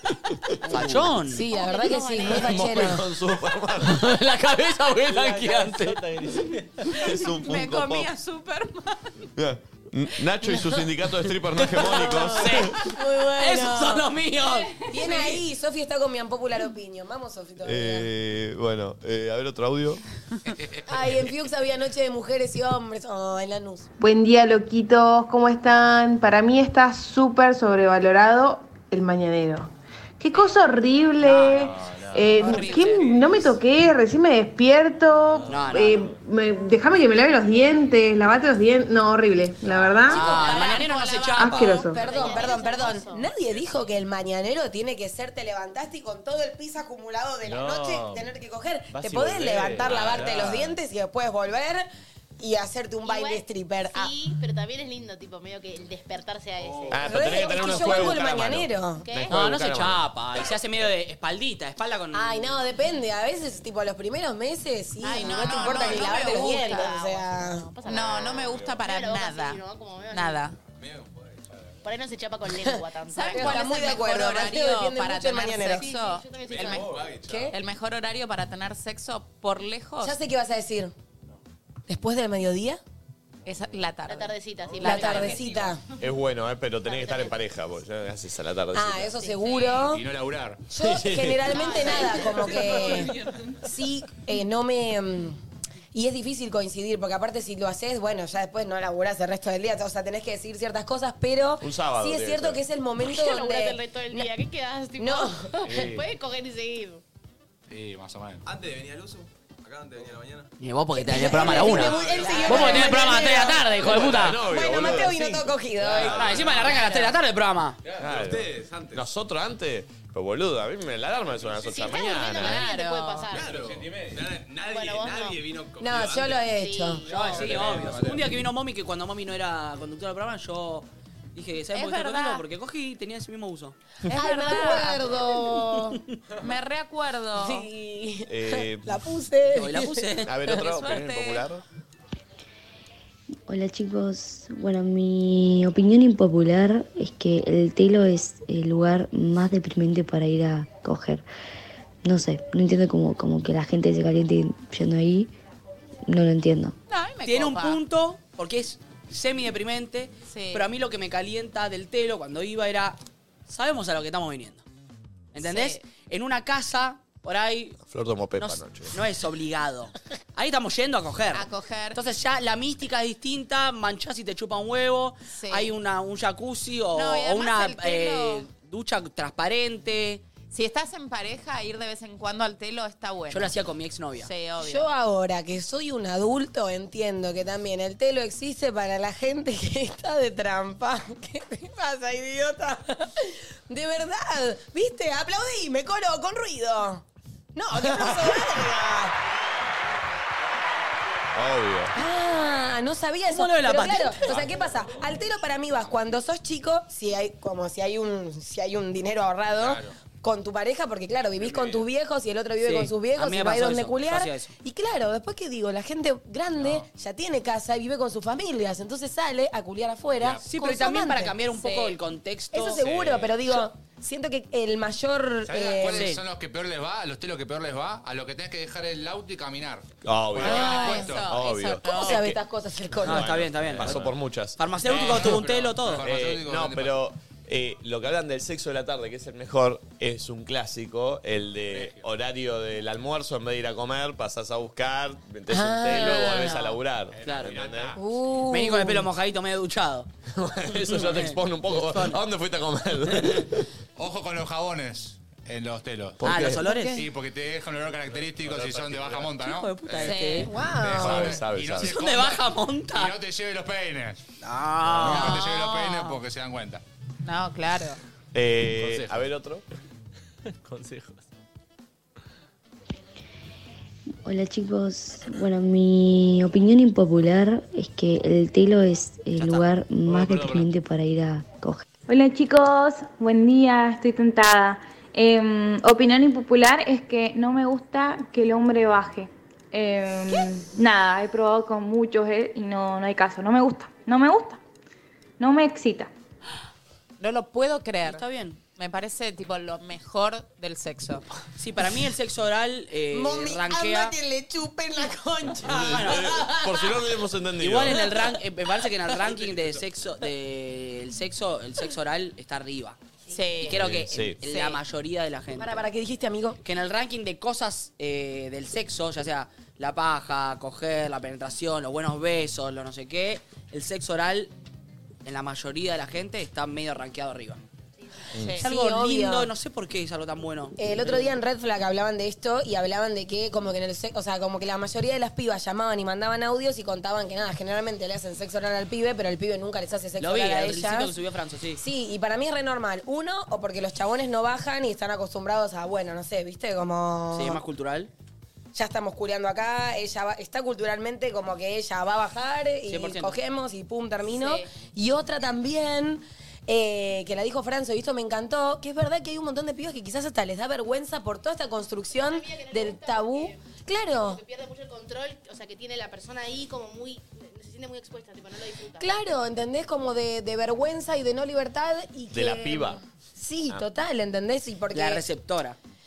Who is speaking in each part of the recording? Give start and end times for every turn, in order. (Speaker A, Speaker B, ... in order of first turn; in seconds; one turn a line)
Speaker A: 0.3-1.1
Speaker B: 0.7-1.4
Speaker C: 0.8-1.0
Speaker D: 1.2-3.0
Speaker E: 1.5-3.0
Speaker A: 2.2-4.0
Speaker B: 3.8-6.0
Speaker C: 5.0-7.0
Speaker A: 6.9-8.1
Speaker F: 7.3-9.1
Speaker A: 9.4-12.8
Speaker D: 10.4-10.8
Speaker B: 11.6-15.3
Speaker D: 11.8-14.1
Speaker D: 14.9-18.1
Speaker A: 17.6-20.0
Speaker G: 20.5-20.8
Speaker D: 20.9-23.9
Speaker H: 24.0-40.3
Speaker C: 31.5-32.9
Speaker F: 32.4-33.5
Speaker C: 35.4-35.9
Speaker B: 35.5-36.0
Speaker C: 39.6-40.1
Speaker B: 40.1-41.9
Speaker F: 40.1-41.9
Speaker H: 41.4-42.0
Speaker D: 41.9-51.9
Speaker E: 42.0-43.3
Speaker C: 47.4-48.3
Speaker C: 48.9-50.8
Speaker D: 52.4-54.1
Speaker E: 53.0-58.2
Speaker I: 56.6-57.0
Speaker A: 56.9-60.0
Speaker D: 57.0-59.1
Speaker E: 59.0-59.4
Speaker B: 59.2-62.6
Speaker D: 62.1-67.7
Speaker F: 65.0-67.0
Speaker E: 65.1-70.5
Speaker F: 67.8-70.6
Speaker I: 68.1-68.7
Speaker I: 70.8-71.6
Speaker E: 71.8-74.0
Speaker D: 72.5-76.0
Speaker F: 73.1-80.2
Speaker E: 75.7-77.0
Speaker I: 76.5-77.5
Speaker D: 77.2-77.5
Speaker D: 80.0-80.9
Speaker D: 81.9-82.8
Speaker F: 83.5-85.5
Speaker E: 84.1-85.7
Speaker D: 84.8-85.8
Speaker A: 86.0-89.2
Speaker E: 86.9-87.4
Speaker D: 88.7-90.0
Speaker E: 89.2-89.8
Speaker G: 89.8-90.6
Speaker D: 90.7-95.4
Speaker A: 90.8-92.1
Speaker E: 91.5-92.6
Speaker D: 95.9-104.3
Speaker A: 101.6-102.6
Speaker E: 103.0-107.0
Speaker D: 105.0-106.0
Speaker C: 105.7-106.0
Speaker G: 107.7-108.4
Speaker I: 108.4-110.5
Speaker B: 110.6-114.4
Speaker D: 111.0-116.4
Speaker I: 111.5-112.9
Speaker E: 112.0-112.6
Speaker A: 113.8-116.7
Speaker B: 115.9-117.8
Speaker F: 116.5-117.2
Speaker I: 117.8-119.0
Speaker A: 118.0-122.6
Speaker I: 121.3-121.9
Speaker E: 121.7-123.7
Speaker F: 121.9-123.4
Speaker I: 123.3-126.5
Speaker E: 124.6-125.4
Speaker D: 125.8-127.0
Speaker E: 126.4-127.8
Speaker B: 127.0-133.8
Speaker I: 127.2-128.3
Speaker F: 131.7-132.4
Speaker F: 134.1-135.2
Speaker D: 134.1-136.0
Speaker F: 136.4-137.7
Speaker D: 137.4-140.1
Speaker A: 138.3-139.1
Speaker B: 139.5-140.3
Speaker A: 140.2-141.6
Speaker F: 140.5-141.5
Speaker J: 143.5-151.2
Speaker J: 152.0-155.3
Speaker J: 156.1-156.8
Speaker F: 156.9-157.8
Speaker B: 157.3-164.7
Speaker F: 160.3-160.7
Speaker B: 165.3-167.8
Speaker F: 165.4-165.8
Speaker A: 167.9-169.0
Speaker B: 168.4-180.2
Speaker F: 171.3-172.0
Speaker F: 175.3-175.7
Speaker F: 176.9-178.5
Speaker F: 180.5-183.6
Speaker B: 183.3-184.3
Speaker F: 184.2-184.9
Speaker D: 184.6-197.0
Speaker D: 197.6-199.1
Speaker A: 197.7-198.4
Speaker A: 201.3-201.9
Speaker D: 201.9-221.3
Speaker B: 203.3-204.3
Speaker I: 211.4-211.8
Speaker B: 212.6-214.6
Speaker B: 220.4-222.8
Speaker F: 221.6-222.0
Speaker D: 222.5-226.1
Speaker G: 222.8-223.3
Speaker G: 225.5-231.2
Speaker B: 225.8-226.2
Speaker A: 230.0-232.4
Speaker F: 230.4-232.3
Speaker D: 230.4-231.1
Speaker D: 231.8-233.3
Speaker A: 233.0-248.0
Speaker B: 233.0-236.1
Speaker G: 234.8-237.0
Speaker D: 245.5-246.6
Speaker F: 246.3-246.6
Speaker B: 247.2-247.6
Speaker G: 247.4-247.9
Speaker D: 247.9-249.1
Speaker B: 248.5-250.1
Speaker A: 250.3-253.7
Speaker B: 250.8-252.2
Speaker B: 253.1-253.4
Speaker G: 254.0-260.1
Speaker A: 256.2-256.7
Speaker B: 256.2-257.1
Speaker A: 258.5-259.0
Speaker B: 259.4-260.5
Speaker F: 260.0-260.5
Speaker D: 260.5-261.4
Speaker G: 260.8-264.2
Speaker A: 261.0-261.9
Speaker B: 261.8-263.1
Speaker B: 264.4-265.4
Speaker G: 264.9-266.8
Speaker F: 265.0-266.2
Speaker F: 267.2-268.0
Speaker A: 268.3-269.6
Speaker G: 268.8-269.1
Speaker C: 270.6-271.2
Speaker J: 274.2-281.9
Speaker B: 279.4-279.7
Speaker G: 280.0-280.7
Speaker K: 282.1-294.6
Speaker K: 295.4-296.1
Speaker F: 297.2-298.2
Speaker B: 298.0-298.6
Speaker F: 298.8-301.3
Speaker B: 301.6-304.1
Speaker D: 303.1-306.2
Speaker A: 305.6-308.1
Speaker B: 305.6-306.8
Speaker B: 307.6-313.0
Speaker F: 313.3-313.8
Speaker B: 313.6-315.9
Speaker A: 313.7-314.4
Speaker F: 314.4-314.8
Speaker D: 315.6-316.6
Speaker B: 316.6-324.5
Speaker B: 325.2-327.6
Speaker F: 328.3-328.6
Speaker A: 328.3-328.6
Speaker D: 328.6-329.5
Speaker B: 328.6-330.8
Speaker D: 330.8-341.1
Speaker B: 340.2-341.8
Speaker D: 341.8-347.6
Speaker B: 347.3-348.1
Speaker D: 348.7-364.4
Speaker B: 352.9-353.4
Speaker F: 354.3-354.6
Speaker E: 362.1-369.2
Speaker D: 369.0-375.2
Speaker A: 372.3-373.0
Speaker B: 374.9-375.8